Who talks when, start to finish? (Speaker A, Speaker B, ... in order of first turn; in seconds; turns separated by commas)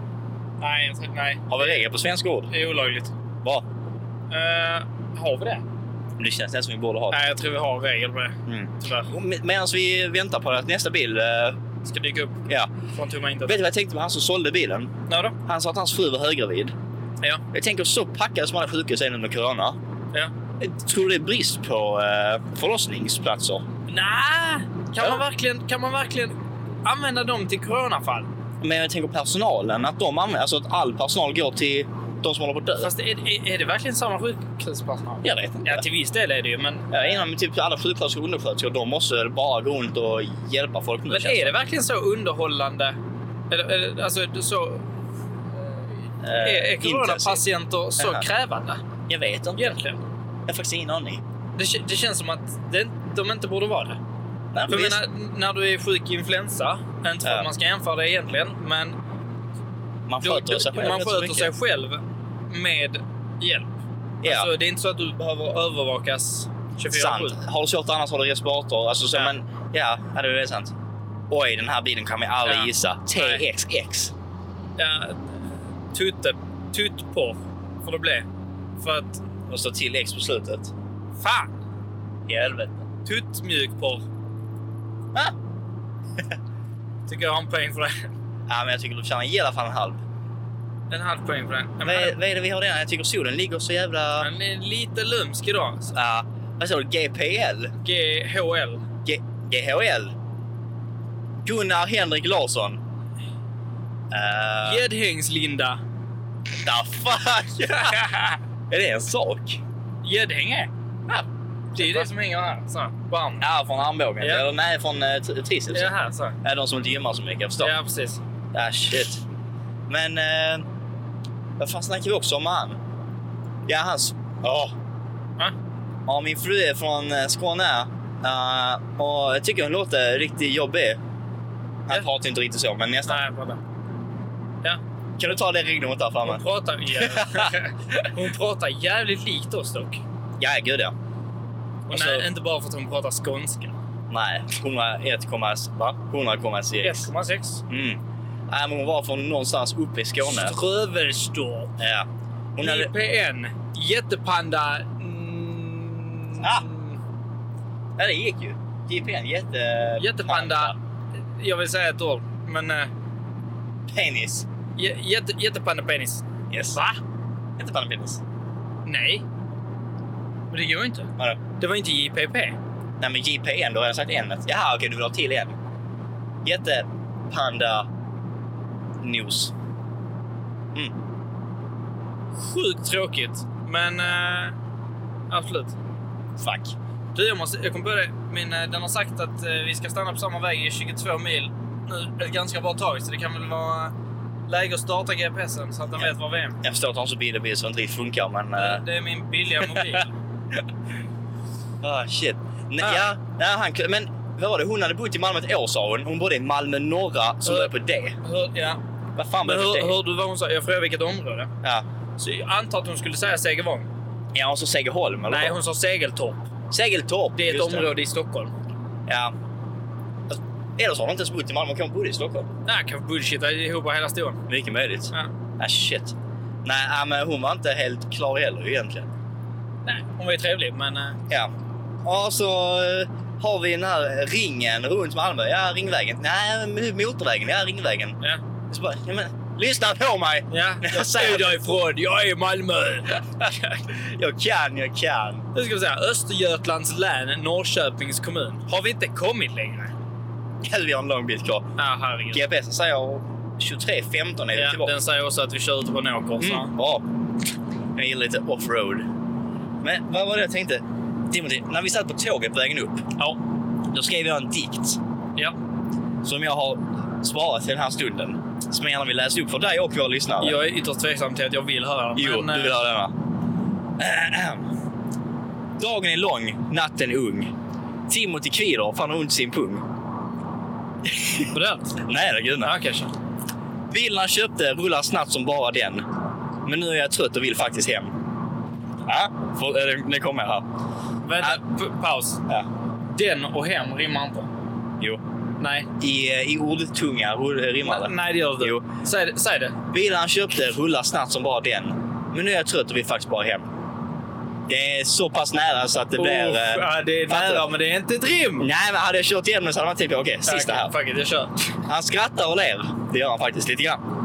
Speaker A: 0.6-1.8, Speaker B: 1.5-2.5, Speaker A: 2.5-3.1, Speaker A: 4.3-5.6, Speaker B: 6.2-7.2, Speaker A: 7.1-9.1, Speaker B: 8.4-11.6, Speaker A: 11.8-12.4, Speaker A: 12.9-13.6, Speaker B: 13.4-14.9, Speaker A: 15.1-15.3, Speaker B: 15.4-16.7, Speaker B: 17.5-19.8, Speaker B: 20.6-23.6, Speaker A: 23.9-26.3, Speaker A: 26.8-28.3, Speaker B: 28.6-32.9, Speaker A: 32.8-37.2, Speaker B: 35.2-35.8, Speaker B: 36.9-41.5, Speaker A: 41.1-43.0, Speaker A: 43.5-44.9, Speaker A: 45.6-48.8, Speaker B: 46.2-47.4, Speaker B: 48.0-48.2, Speaker B: 49.1-49.8, Speaker A: 49.5-50.0, Speaker B: 50.5-51.2, Speaker A: 51.6-54.0, Speaker B: 54.5-55.0, Speaker A: 54.7-59.0, Speaker B: 57.2-57.5, Speaker B: 60.1-61.5, Speaker A: 60.2-67.4, Speaker B: 64.2-64.5, Speaker B: 66.9-70.7, Speaker B: 71.3-74.1, Speaker A: 72.4-73.4, Speaker A: 74.8-75.4, Speaker A: 75.9-78.2, Speaker A: 78.8-79.2, Speaker B: 79.5-80.7, Speaker A: 81.2-81.5, Speaker B: 82.3-82.8, Speaker A: 83.0-84.0, Speaker A: 87.1-88.1, Speaker B: 88.5-90.0, Speaker A: 90.9-92.1, Speaker B: 91.8-94.3, Speaker A: 94.2-95.9, Speaker B: 95.9-97.7, Speaker A: 97.8-98.8, Speaker B: 99.0-100.1, Speaker B: 101.4-102.8, Speaker B: 104.1-104.8, Speaker A: 104.6-105.8, Speaker B: 106.6-108.1, Speaker A: 107.7-108.4, Speaker B: 108.7-109.6, Speaker A: 110.0-110.7, Speaker B: 111.1-112.1, Speaker A: 111.7-113.4, Speaker B: 113.4-117.7, Speaker A: 114.2-114.5, Speaker A: 115.7-116.4, Speaker A: 117.6-118.2, Speaker B: 118.5-119.2, Speaker B: 119.9-120.6, Speaker B: 121.6-122.8, Speaker B: 123.7-124.7, Speaker B: 126.0-131.0, Speaker B: 131.9-133.2, Speaker A: 133.1-133.6, Speaker B: 135.2-138.1, Speaker A: 136.2-140.0, Speaker B: 140.4-140.9, Speaker A: 141.9-143.7, Speaker B: 141.9-142.3, Speaker B: 144.1-147.1, Speaker A: 146.8-147.6, Speaker B: 147.7-150.5, Speaker A: 150.2-151.7, Speaker B: 151.8-152.9, Speaker A: 152.6-157.0, Speaker B: 156.4-156.7, Speaker B: 158.0-160.8, Speaker A: 160.0-160.7, Speaker A: 161.4-162.9, Speaker B: 163.9-164.4, Speaker A: 164.8-167.0, Speaker B: 166.5-166.8, Speaker B: 167.6-168.2, Speaker A: 168.8-169.2, Speaker A: 170.5-172.6, Speaker B: 173.0-175.5, Speaker B: 176.4-177.9, Speaker B: 179.0-179.5, Speaker A: 182.3-184.5, Speaker A: 185.3-185.7, Speaker B: 186.4-186.7, Speaker A: 187.1-193.9, Speaker A: 194.5-196.6, Speaker B: 195.9-198.8, Speaker A: 198.6-200.1, Speaker B: 199.6-200.0, Speaker B: 201.8-208.2, Speaker A: 202.8-203.1, Speaker A: 207.4-208.8, Speaker B: 209.2-209.9, Speaker A: 209.4-211.5, Speaker A: 212.2-213.9, Speaker B: 214.3-215.6, Speaker A: 215.3-216.4, Speaker B: 216.7-217.9, Speaker A: 217.3-218.5, Speaker B: 219.1-219.3, Speaker B: 220.3-222.5, Speaker A: 222.7-224.4, Speaker B: 224.5-229.1, Speaker A: 229.8-231.2, Speaker B: 232.0-238.2, Speaker B: 238.7-241.6, Speaker A: 240.5-243.8, Speaker B: 243.9-245.4, Speaker A: 245.5-249.9, Speaker B: 250.6-251.7, Speaker A: 251.8-252.4, Speaker B: 252.3-254.9, Speaker A: 254.5-256.7, Speaker B: 256.4-257.0, Speaker B: 257.9-259.1, Speaker B: 259.8-263.1, Speaker B: 263.9-265.0, Speaker B: 266.2-270.6, Speaker A: 270.4-272.8, Speaker B: 272.1-273.1, Speaker B: 274.0-274.7, Speaker B: 275.8-277.5, Speaker B: 278.1-279.8, Speaker B: 281.1-282.7, Speaker A: 281.5-281.9, Speaker A: 282.6-283.1, Speaker B: 283.9-286.0, Speaker B: 286.6-288.1, Speaker B: 289.1-290.6, Speaker A: 291.2-292.4, Speaker A: 293.1-294.5, Speaker A: 295.6-295.9, Speaker B: 296.0-298.8, Speaker A: 297.8-299.8, Speaker B: 299.9-303.6, Speaker B: 304.7-307.7, Speaker A: 306.1-308.7, Speaker B: 308.6-310.9, Speaker A: 310.4-311.7, Speaker B: 311.9-314.0